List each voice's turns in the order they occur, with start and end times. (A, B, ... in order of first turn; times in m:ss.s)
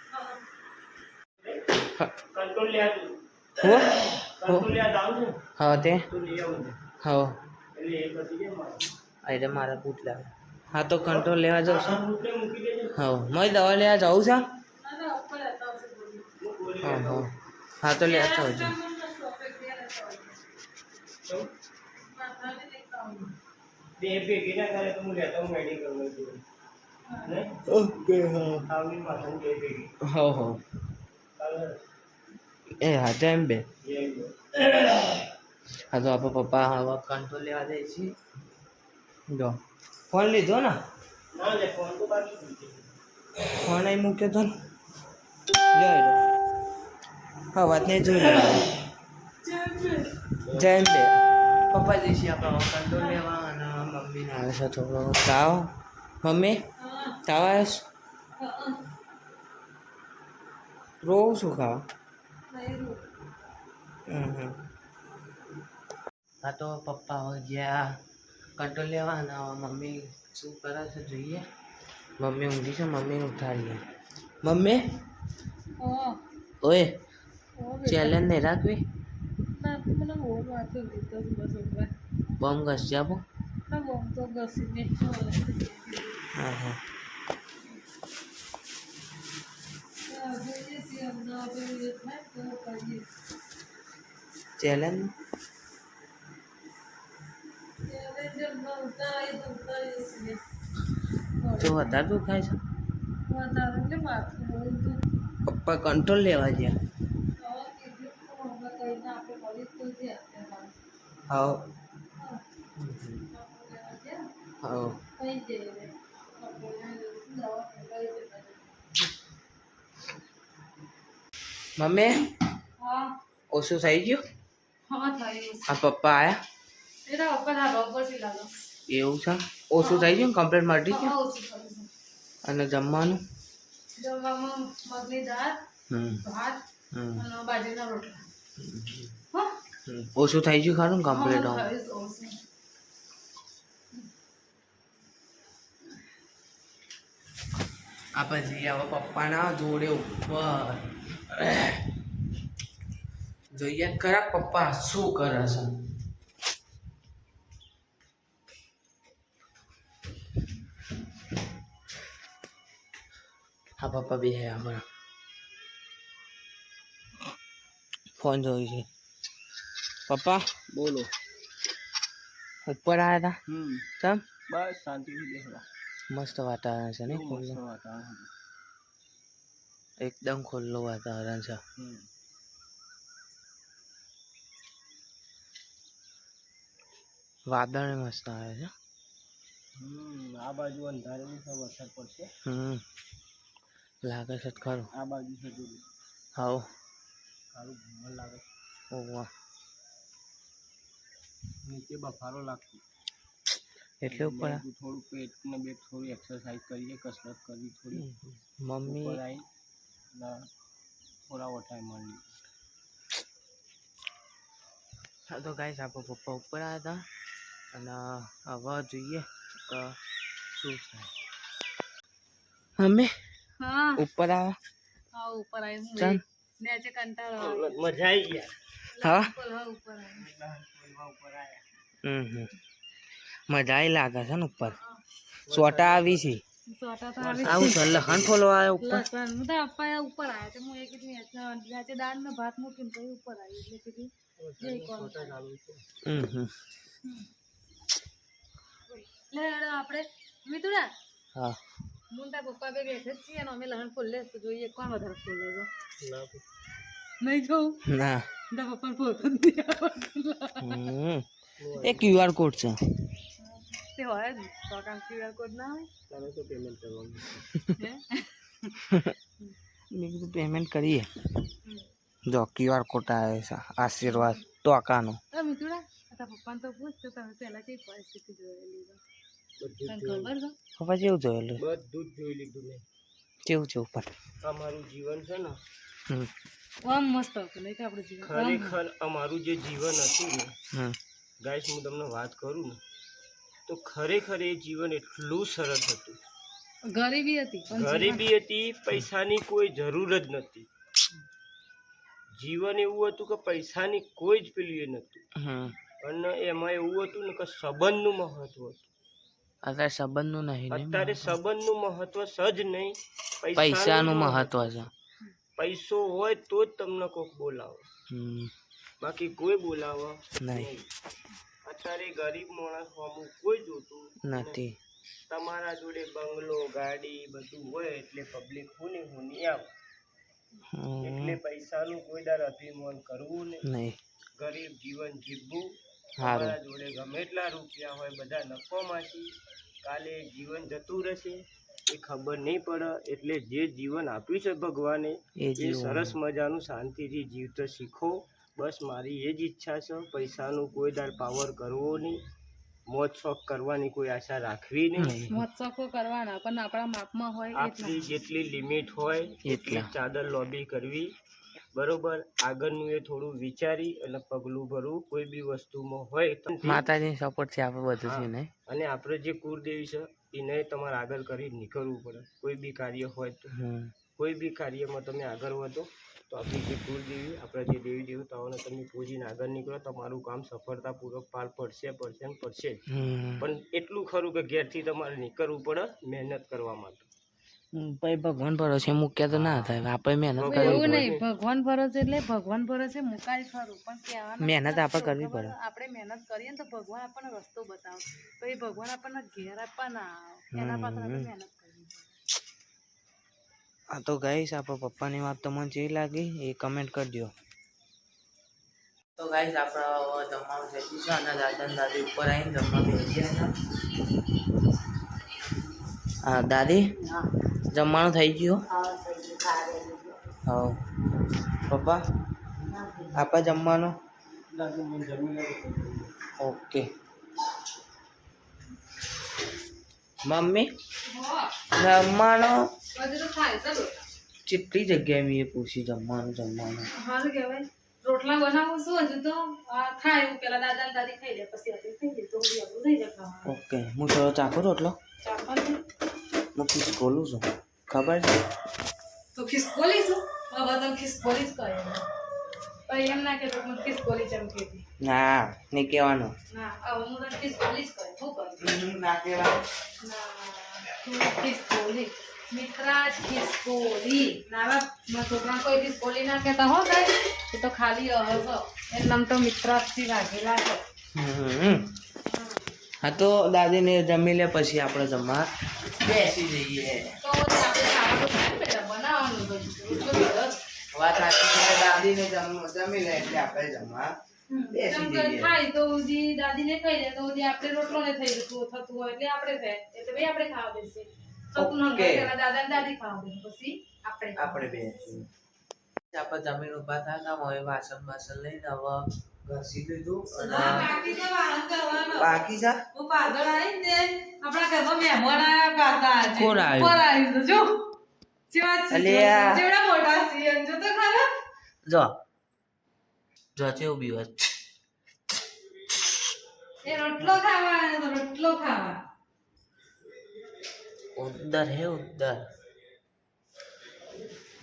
0:01.4-0:05.4 A
0:03.6-0:04.7 B
0:05.6-0:06.0 B
0:06.1-0:06.8 A
0:07.0-0:07.3 B
0:07.7-0:08.9 A
0:09.2-0:12.0 B
0:11.1-0:13.0 A
0:12.9-0:14.4 B
0:14.8-0:16.3 C
0:16.4-0:17.3 A
0:16.8-0:17.3 B
0:17.8-0:18.7 B
0:18.0-0:20.4 C
0:21.2-0:21.5 A
0:22.0-0:23.3 C
0:24.0-0:26.4 A
0:27.1-0:27.4 C
0:27.2-0:27.6 A
0:27.7-0:28.7 B
0:28.6-0:29.9 A
0:30.1-0:30.6 B
0:31.4-0:31.8 A
0:32.8-0:33.6 B
0:33.8-0:35.3 A
0:35.9-0:38.1 B
0:39.3-0:39.6 B
0:40.1-0:40.8 B
0:41.3-0:42.9 A
0:43.5-0:44.5 B
0:45.7-0:46.2 B
0:47.5-0:48.8 B
0:49.4-0:50.1 C
0:50.5-0:56.6 B
0:52.9-0:53.2 C
0:56.8-0:57.2 C
0:57.2-0:57.8 B
0:58.4-0:58.8 C
1:01.0-1:01.8 B
1:02.5-1:03.0 C
1:04.1-1:04.6 B
1:06.4-1:07.9 B
1:08.6-1:11.4 B
1:12.2-1:13.8 B
1:14.4-1:14.8 B
1:15.8-1:16.2 C
1:16.6-1:17.0 B
1:17.6-1:18.2 C
1:17.8-1:18.8 B
1:19.5-1:21.9 C
1:22.4-1:23.2 B
1:23.7-1:26.2 C
1:26.3-1:26.8 B
1:30.0-1:33.0 C
1:34.6-1:35.1 B
1:37.8-1:40.4 C
1:41.4-1:42.0 C
1:41.6-1:42.6 B
1:43.2-1:45.0 C
1:45.4-1:46.8 B
1:47.4-1:50.7 C
1:51.3-1:51.6 B
1:52.8-1:53.2 B
1:53.3-1:54.3 C
1:54.6-1:55.0 B
1:55.2-1:58.8 C
2:01.8-2:02.3 B
2:02.8-2:03.1 C
2:03.5-2:04.2 B
2:04.9-2:05.7 C
2:05.7-2:06.4 B
2:07.0-2:08.5 C
2:08.9-2:11.1 B
2:09.8-2:10.2 C
2:10.9-2:11.9 C
2:12.4-2:13.2 B
2:14.0-2:15.6 C
2:15.9-2:16.2 B
2:16.2-2:16.6 C
2:16.9-2:17.2 B
2:17.2-2:18.3 C
2:18.6-2:19.2 B
2:19.9-2:21.7 B
2:21.1-2:22.4 C
2:28.1-2:31.9 B
2:33.5-2:35.7 B
2:43.8-2:44.8 B
2:48.2-2:48.9 B
2:50.1-2:50.5 B
2:50.7-2:51.1 A
2:52.6-2:53.4 B
2:53.5-2:53.8 A
2:54.5-2:55.6 A
2:56.1-2:57.6 B
2:57.1-2:58.3 A
3:00.0-3:01.6 B
3:01.8-3:02.0 A
3:07.5-3:08.7 B
3:09.8-3:12.3 A
3:12.4-3:12.8 B
3:14.0-3:14.9 B
3:14.9-3:15.8 A
3:16.4-3:16.6 B
3:17.5-3:18.4 A
3:18.9-3:19.3 B
3:21.6-3:22.8 A
3:24.0-3:24.6 B
3:24.1-3:28.2 A
3:28.0-3:29.2 B
3:28.8-3:29.4 A
3:30.1-3:30.5 A
3:31.3-3:32.3 A
3:35.3-3:37.0 B
3:37.7-3:40.0 B
3:40.5-3:41.1 B
3:42.8-3:43.1 B
3:43.6-3:44.0 C
3:44.0-3:44.6 B
3:45.1-3:47.9 C
3:46.0-3:46.2 B
3:47.4-3:48.5 A
3:48.9-3:50.2 C
3:49.0-3:49.3 B
3:50.1-3:51.6 A
3:52.0-3:52.5 B
3:53.5-3:54.8 B
3:55.4-3:56.2 A
3:55.5-3:56.4 B
3:56.7-3:57.9 C
3:57.2-3:58.4 A
3:57.4-3:59.0 B
3:58.8-4:05.3 C
4:04.4-4:05.8 A
4:06.0-4:06.5 B
4:08.9-4:10.9 C
4:12.1-4:15.7 C
4:16.0-4:16.4 A
4:17.2-4:17.8 C
4:17.8-4:18.3 B
4:18.5-4:20.8 C
4:20.6-4:21.2 B
4:21.6-4:22.3 A
4:21.8-4:22.8 B
4:23.4-4:25.9 C
4:26.1-4:27.5 A
4:27.7-4:28.8 C
4:28.9-4:29.1 B
4:29.9-4:31.1 B
4:32.3-4:35.2 B
4:34.0-4:34.4 C
4:35.3-4:39.0 C
4:39.6-4:40.3 A
4:39.9-4:40.5 C
4:40.8-4:41.6 B
4:41.6-4:42.8 A
4:43.4-4:44.1 B
4:44.4-4:45.6 A
4:46.8-4:48.8 C
4:48.2-4:50.5 A
4:51.4-4:52.8 A
4:53.6-4:56.2 A
4:56.9-4:58.2 C
4:57.7-5:00.6 A
5:02.4-5:05.2 A
5:05.4-5:05.7 B
5:06.0-5:08.9 A
5:09.6-5:11.4 B
5:10.7-5:14.6 A
5:13.6-5:14.9 B
5:15.6-5:17.8 A
5:18.1-5:18.5 B
5:19.0-5:20.9 A
5:20.4-5:20.7 B
5:21.6-5:24.6 A
5:24.2-5:24.8 B
5:25.3-5:29.7 A
5:30.7-5:31.4 B
5:31.0-5:33.6 A
5:33.6-5:34.0 B
5:34.4-5:52.2 A
5:36.2-5:36.6 B
5:45.4-5:46.1 B
5:52.9-5:55.2 A
5:55.0-5:55.4 B
5:55.3-5:58.0 C
5:57.5-6:01.1 A
5:59.4-5:59.9 B
6:01.7-6:06.8 A
6:06.6-6:08.5 B
6:08.0-6:13.5 A
6:13.5-6:13.9 B
6:14.1-6:22.8 A
6:22.9-6:23.4 B
6:23.4-6:27.1 A
6:27.7-6:31.1 B
6:29.3-6:29.8 A
6:30.4-6:31.2 A
6:30.4-6:42.2 C
6:34.4-6:35.5 B
6:40.5-6:41.3 B
6:43.9-6:47.3 B
6:49.2-6:53.5 B
6:56.2-6:56.9 B
6:57.7-6:58.6 B
6:58.7-7:00.1 C
7:00.4-7:00.8 B
7:01.6-7:02.0 B
7:03.1-7:03.9 B
7:04.5-7:06.1 A
7:06.4-7:06.9 B
7:10.2-7:10.7 B
7:11.1-7:11.5 C
7:11.7-7:12.7 B
7:12.9-7:14.0 C
7:14.4-7:16.9 B
7:16.9-7:23.5 C
7:23.4-7:25.0 B
7:25.2-7:25.8 C
7:26.5-7:28.4 B
7:29.3-7:32.0 C
7:32.9-7:34.8 C
7:35.0-7:36.3 B
7:36.5-7:38.7 C
7:38.6-7:39.6 B
7:40.0-7:50.8 C
7:51.1-7:51.9 B
7:52.3-7:52.6 C
7:53.0-7:57.2 B
7:57.2-8:00.6 C
8:00.9-8:04.1 B
8:04.5-8:14.7 C
8:04.7-8:05.5 B
8:11.5-8:12.3 B
8:14.4-8:15.2 B
8:16.1-8:21.0 B
8:20.4-8:22.4 C
8:22.1-8:22.8 B
8:22.9-8:27.7 C
8:26.3-8:27.0 B
8:28.5-8:31.3 C
8:28.9-8:29.6 B
8:31.8-8:32.1 B
8:33.5-8:34.5 B
8:36.8-8:39.0 C
8:41.2-8:42.4 B